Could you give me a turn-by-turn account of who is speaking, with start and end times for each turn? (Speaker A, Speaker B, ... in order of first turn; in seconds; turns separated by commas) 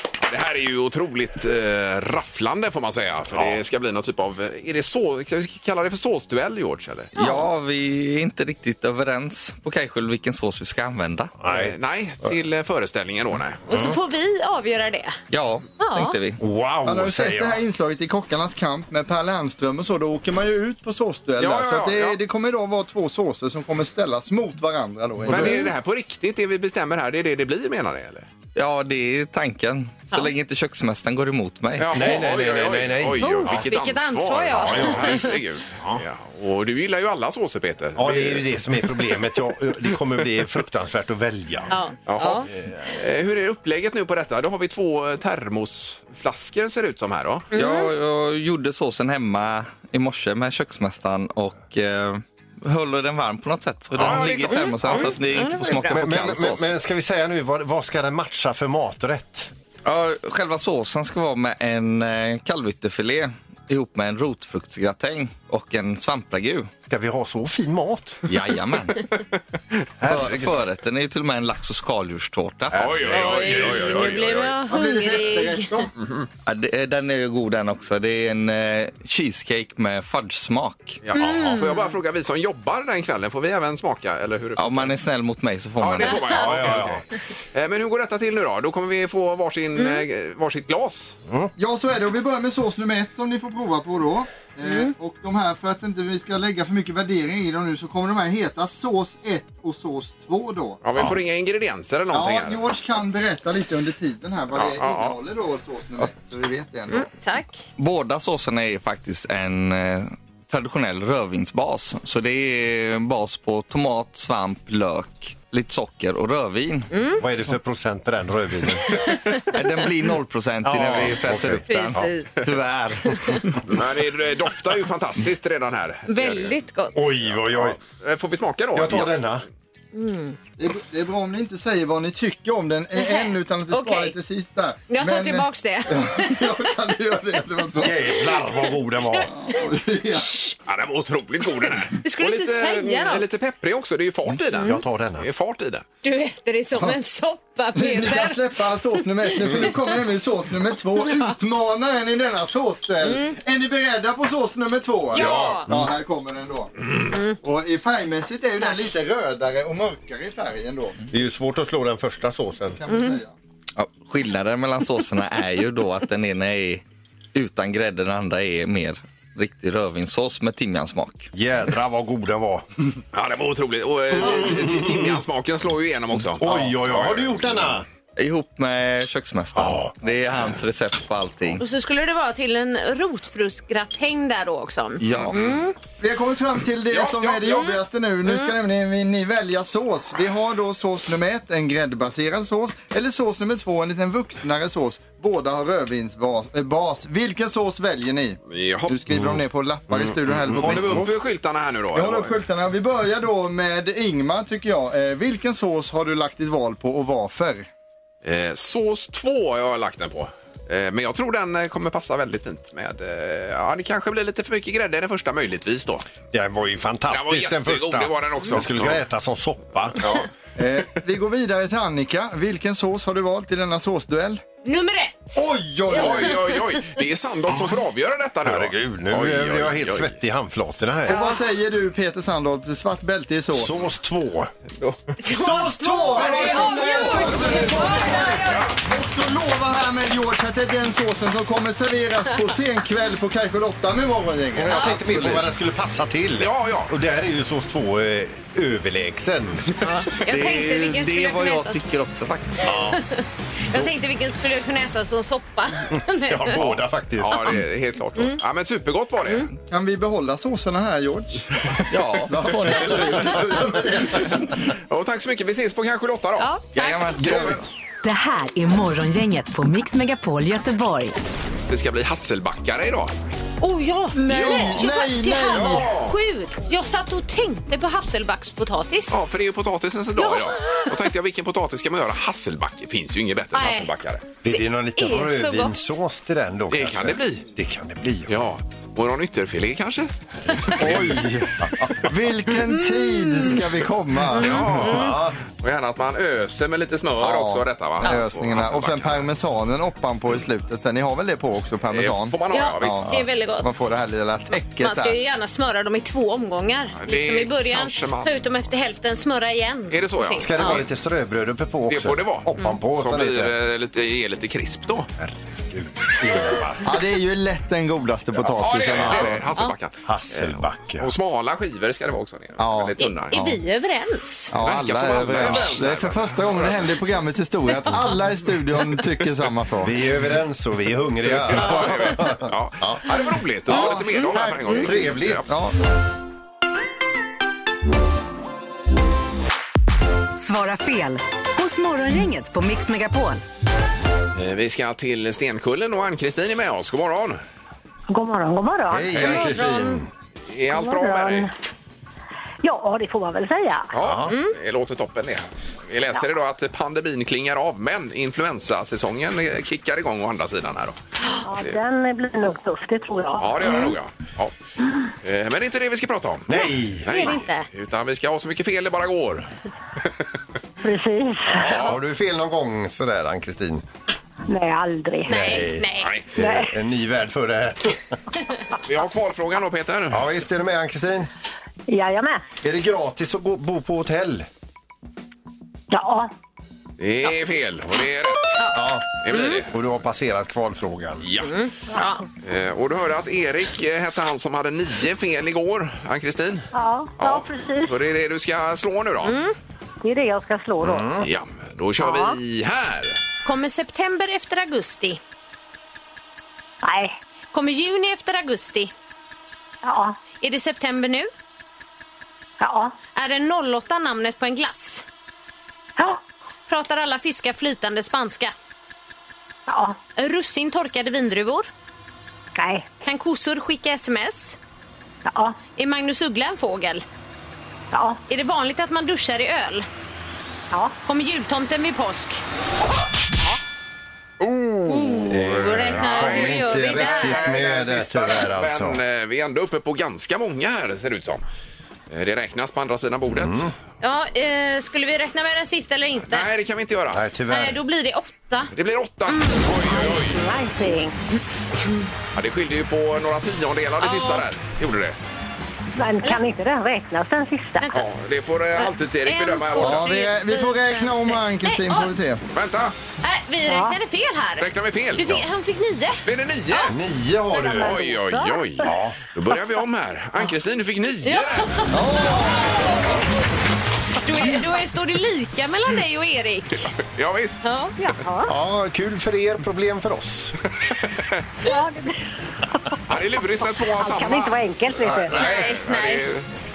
Speaker A: 0.2-7.1, Speaker B: 3.3-3.6, Speaker C: 7.2-7.5, Speaker D: 7.2-11.3, Speaker B: 11.4-11.7, Speaker A: 11.5-13.7, Speaker C: 13.7-15.2, Speaker B: 13.7-14.0, Speaker D: 15.3-16.4, Speaker C: 15.8-16.2, Speaker B: 16.4-17.6, Speaker E: 16.8-25.7, Speaker A: 21.4-22.2, Speaker B: 25.3-25.5, Speaker A: 25.3-28.2, Speaker D: 28.6-32.0, Speaker A: 31.8-39.1, Speaker B: 31.9-33.7, Speaker C: 33.2-35.4, Speaker B: 34.5-36.0, Speaker B: 38.0-41.8, Speaker C: 41.7-42.5, Speaker A: 42.1-47.5, Speaker C: 47.5-47.9, Speaker D: 47.5-56.7, Speaker B: 53.9-55.0, Speaker A: 54.0-55.4, Speaker C: 54.5-55.9, Speaker B: 55.9-59.5, Speaker D: 59.9-66.7, Speaker B: 66.9-68.3, Speaker D: 68.3-69.1, Speaker B: 70.0-70.6, Speaker D: 70.0-72.8, Speaker B: 72.7-74.1, Speaker A: 72.7-74.5, Speaker C: 73.1-75.8, Speaker E: 74.7-75.9, Speaker D: 76.4-81.0, Speaker A: 81.0-85.0, Speaker C: 81.1-81.9, Speaker B: 81.2-81.6, Speaker D: 84.6-86.2, Speaker A: 85.8-91.2, Speaker B: 86.3-87.0, Speaker C: 89.8-90.0, Speaker E: 91.6-100.8, Speaker C: 94.6-94.9, Speaker A: 100.8-102.6, Speaker E: 102.1-107.1, Speaker A: 104.5-105.2, Speaker C: 106.9-107.6, Speaker D: 107.8-116.9, Speaker C: 116.9-117.2, Speaker B: 117.2-119.0, Speaker C: 119.0-119.3, Speaker D: 119.5-123.5, Speaker B: 120.6-122.1, Speaker C: 121.7-122.3, Speaker A: 123.6-126.5, Speaker C: 126.1-127.0, Speaker B: 126.9-127.8, Speaker A: 127.5-129.2, Speaker B: 128.7-129.4, Speaker C: 129.9-130.4, Speaker E: 130.6-138.1, Speaker C: 132.9-134.2, Speaker C: 134.9-136.4, Speaker B: 137.8-139.3, Speaker E: 139.3-140.5, Speaker C: 140.3-140.5, Speaker A: 140.6-145.8, Speaker C: 141.9-143.3, Speaker C: 144.5-144.8, Speaker B: 144.6-145.3, Speaker C: 146.0-149.8, Speaker E: 147.7-156.7, Speaker C: 151.0-151.3, Speaker C: 153.0-153.3, Speaker C: 155.1-155.7, Speaker A: 155.1-155.6, Speaker B: 155.7-155.9, Speaker E: 157.4-161.0, Speaker B: 161.1-162.8, Speaker E: 162.8-163.3, Speaker C: 162.9-163.2, Speaker D: 163.8-166.8, Speaker D: 167.3-171.3, Speaker B: 171.3-172.6, Speaker A: 173.1-177.8, Speaker B: 174.2-174.9, Speaker B: 176.4-177.8, Speaker D: 178.2-181.6, Speaker B: 179.5-179.9, Speaker C: 181.6-185.7, Speaker D: 185.0-185.3, Speaker A: 185.1-185.6, Speaker E: 186.0-201.1, Speaker A: 186.9-187.7, Speaker C: 187.5-188.5, Speaker A: 198.5-198.9, Speaker B: 199.9-201.1, Speaker A: 200.6-202.4, Speaker E: 201.9-207.7, Speaker A: 208.2-216.1, Speaker B: 216.3-220.0, Speaker A: 217.1-219.0, Speaker E: 220.6-224.4, Speaker C: 224.6-226.6, Speaker E: 225.3-226.4, Speaker A: 225.9-230.2, Speaker B: 228.4-231.3, Speaker E: 231.1-233.8, Speaker C: 231.1-231.4, Speaker B: 233.5-234.5, Speaker C: 235.2-238.7, Speaker E: 235.3-245.4, Speaker B: 236.0-237.6, Speaker A: 236.3-238.7, Speaker B: 244.5-249.7, Speaker A: 246.4-246.9, Speaker C: 249.8-251.8, Speaker D: 250.3-252.7, Speaker B: 252.6-253.0, Speaker C: 252.8-256.6, Speaker B: 256.1-257.6, Speaker A: 256.6-259.5, Speaker E: 259.7-264.5, Speaker D: 261.9-263.3, Speaker A: 264.9-266.5, Speaker C: 266.4-266.7, Speaker D: 266.8-267.3, Speaker E: 267.2-267.6, Speaker F: 268.0-271.1, Speaker A: 271.7-273.1, Speaker C: 273.6-279.1, Speaker E: 274.1-275.9, Speaker A: 274.3-275.0, Speaker A: 275.5-276.1, Speaker A: 279.1-284.2, Speaker C: 280.2-280.9, Speaker C: 283.5-283.9, Speaker B: 284.4-288.4, Speaker C: 284.5-286.0, Speaker A: 286.7-287.4, Speaker A: 288.3-291.2, Speaker B: 290.8-292.1, Speaker E: 290.8-294.8, Speaker C: 292.7-293.6, Speaker C: 294.3-295.2, Speaker A: 294.4-299.3, Speaker B: 294.4-295.4, Speaker E: 297.2-305.2, Speaker A: 301.9-303.1, Speaker C: 302.5-303.7, Speaker C: 304.8-310.8, Speaker A: 307.0-308.4, Speaker A: 309.9-310.9, Speaker B: 310.4-313.6, Speaker A: 311.9-315.1, Speaker B: 315.2-316.9, Speaker E: 316.8-319.4, Speaker A: 318.4-323.4, Speaker B: 320.0-321.1, Speaker E: 322.6-323.6, Speaker C: 323.0-324.6, Speaker E: 324.5-329.9, Speaker A: 324.6-327.0, Speaker B: 325.2-325.7, Speaker C: 327.7-328.0, Speaker B: 329.8-333.2, Speaker A: 331.2-335.5, Speaker E: 333.7-334.9, Speaker C: 333.7-334.3, Speaker B: 334.6-335.5, Speaker E: 335.4-335.8, Speaker F: 340.4-343.4, Speaker A: 344.3-347.4, Speaker G: 348.1-349.6, Speaker B: 348.9-350.1, Speaker A: 349.1-349.5, Speaker C: 349.2-350.0, Speaker A: 350.5-351.5, Speaker G: 350.7-351.5, Speaker G: 352.6-353.9, Speaker A: 353.9-361.0, Speaker B: 354.0-354.3, Speaker C: 354.3-354.5, Speaker G: 361.4-363.9, Speaker A: 363.4-364.5, Speaker A: 365.2-369.5, Speaker B: 366.5-367.3, Speaker C: 367.1-367.6, Speaker G: 370.8-371.6, Speaker B: 371.6-373.8, Speaker A: 371.6-371.9, Speaker G: 374.5-375.3, Speaker C: 375.2-376.1, Speaker B: 375.3-378.2, Speaker G: 376.4-376.7, Speaker A: 378.9-380.3, Speaker B: 380.1-381.3, Speaker G: 381.9-382.4, Speaker B: 382.6-384.5, Speaker G: 385.9-386.3, Speaker A: 387.0-388.6, Speaker C: 388.6-389.6, Speaker B: 388.7-391.2, Speaker A: 389.2-389.7, Speaker A: 391.2-391.5, Speaker C: 391.4-392.2, Speaker A: 392.4-399.4, Speaker G: 396.7-397.9, Speaker C: 399.2-399.5, Speaker G: 400.0-401.1, Speaker B: 400.8-401.3, Speaker A: 401.2-403.2, Speaker G: 402.0-402.3, Speaker C: 403.4-405.2, Speaker G: 406.8-407.1, Speaker C: 407.5-408.9, Speaker G: 409.8-410.2, Speaker C: 410.4-411.3, Speaker G: 412.6-412.9, Speaker C: 413.1-415.0, Speaker C: 416.7-418.5, Speaker G: 419.7-420.0, Speaker C: 420.1-421.7, Speaker G: 422.5-422.9, Speaker C: 423.0-424.6, Speaker G: 425.3-425.6, Speaker C: 425.8-427.0, Speaker G: 427.9-428.2, Speaker C: 428.3-429.9, Speaker C: 431.0-432.4, Speaker A: 434.4-441.4, Speaker C: 434.9-437.6, Speaker B: 435.3-439.0, Speaker A: 442.1-443.7, Speaker B: 443.3-443.7, Speaker C: 444.0-446.5, Speaker A: 446.3-447.2, Speaker B: 447.1-447.8, Speaker C: 447.5-448.7, Speaker A: 448.7-450.4, Speaker C: 449.3-449.7, Speaker G: 449.7-451.1, Speaker A: 452.3-455.2, Speaker C: 454.0-454.4, Speaker G: 456.0-457.9, Speaker C: 457.8-458.1, Speaker A: 457.9-460.1, Speaker C: 458.8-462.1, Speaker E: 459.8-462.4, Speaker A: 462.5-462.9, Speaker C: 463.2-466.2, Speaker G: 463.7-464.0, Speaker A: 464.6-465.4, Speaker A: 466.2-466.9, Speaker B: 466.8-468.0, Speaker G: 467.6-468.7, Speaker A: 467.7-471.8, Speaker B: 468.8-469.2, Speaker C: 471.2-473.0, Speaker E: 471.9-472.9, Speaker C: 474.2-476.9, Speaker A: 476.8-477.6, Speaker C: 477.6-477.9, Speaker G: 478.0-478.5, Speaker B: 478.4-480.6, Speaker G: 481.6-482.1, Speaker A: 483.1-484.6, Speaker G: 483.9-485.4, Speaker A: 485.1-486.4, Speaker C: 485.3-486.2, Speaker B: 485.3-485.6